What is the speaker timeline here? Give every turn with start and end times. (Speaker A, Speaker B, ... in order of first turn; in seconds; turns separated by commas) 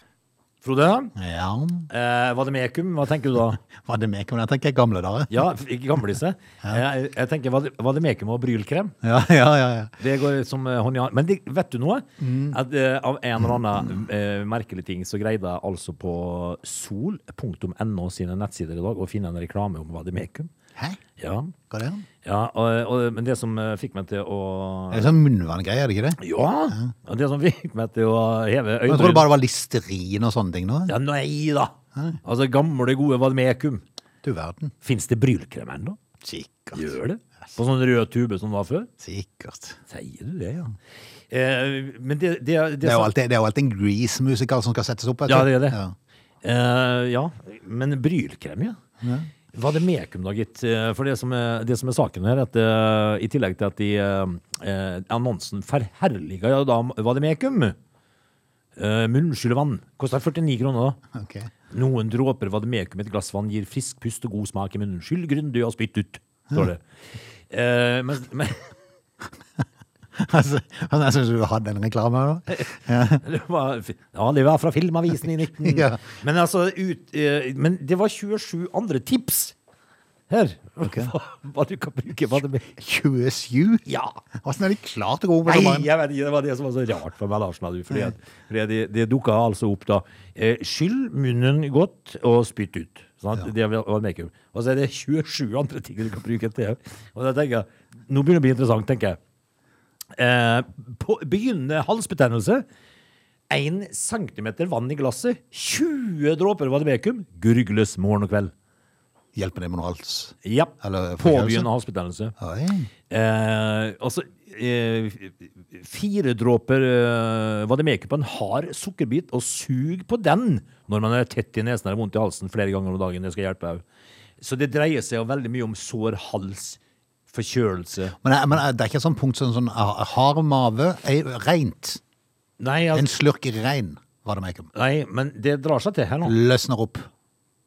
Speaker A: 0.6-1.1, Speaker B: 1.1-1.9, Speaker A: 1.9-3.6, Speaker B: 3.8-5.4, Speaker A: 5.3-8.9, Speaker B: 9.0-9.9, Speaker A: 10.0-20.5, Speaker B: 12.2-12.6, Speaker A: 21.2-21.5, Speaker B: 21.7-22.1, Speaker A: 22.2-25.1, Speaker B: 24.9-26.9, Speaker A: 26.2-29.3, Speaker B: 28.9-30.9, Speaker A: 30.9-33.8, Speaker B: 34.2-34.7, Speaker A: 34.8-36.0, Speaker B: 36.2-36.9, Speaker A: 36.7-38.9, Speaker B: 39.0-39.8, Speaker A: 39.9-40.7, Speaker A: 41.3-43.1, Speaker B: 42.8-45.9, Speaker A: 45.3-45.8, Speaker A: 46.4-48.8, Speaker B: 49.0-49.3, Speaker A: 49.5-57.8, Speaker A: 58.8-61.0, Speaker B: 61.1-61.5, Speaker A: 61.7-66.8, Speaker A: 67.5-68.6, Speaker B: 70.2-73.2, Speaker A: 72.5-79.5, Speaker B: 75.6-76.0, Speaker A: 80.3-82.7, Speaker B: 80.8-81.1, Speaker B: 82.8-83.8, Speaker A: 83.8-84.2, Speaker B: 84.4-85.9, Speaker A: 85.4-99.2, Speaker A: 100.1-102.6, Speaker A: 103.5-108.5, Speaker B: 109.3-111.7, Speaker A: 110.4-112.3, Speaker B: 112.4-112.9, Speaker A: 113.1-123.8, Speaker A: 124.4-126.8, Speaker A: 127.3-128.1, Speaker B: 128.2-132.0, Speaker A: 132.6-133.1, Speaker B: 132.9-134.7, Speaker A: 134.7-136.4, Speaker B: 136.2-137.1